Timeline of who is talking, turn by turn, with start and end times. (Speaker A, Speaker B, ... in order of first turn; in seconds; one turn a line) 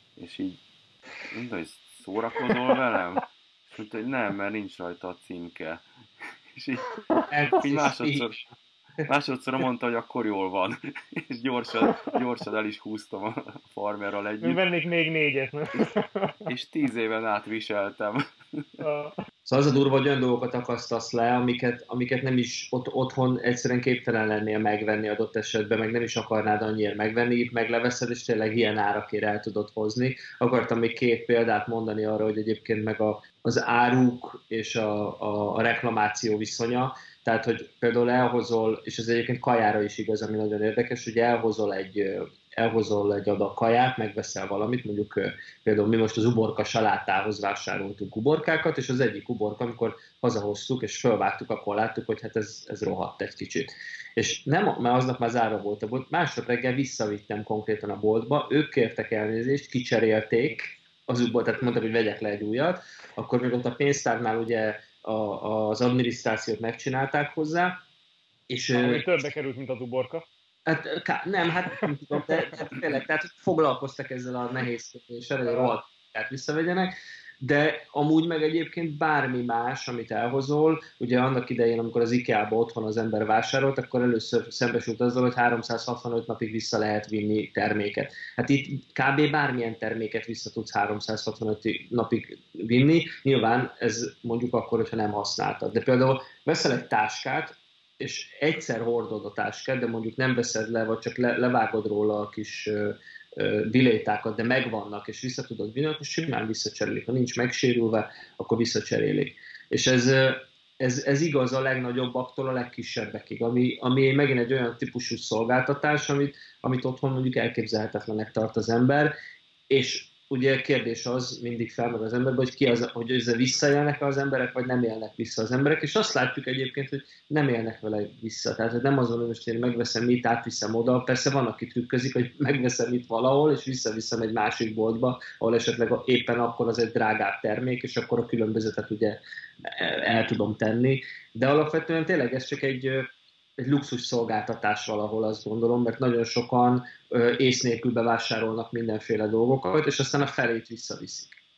Speaker A: 0.2-0.6
Speaker A: 1.3-5.8
Speaker A: 6.5-6.9
Speaker B: 7.3-8.3
Speaker A: 7.5-8.4
Speaker A: 9.0-14.6
Speaker C: 11.8-12.1
Speaker C: 14.4-16.5
Speaker A: 16.5-18.8
Speaker C: 18.8-19.1
Speaker B: 19.4-67.8
Speaker B: 68.5-69.1
Speaker C: 68.7-70.2
Speaker B: 70.7-119.1
Speaker C: 75.5-75.7
Speaker B: 119.7-151.4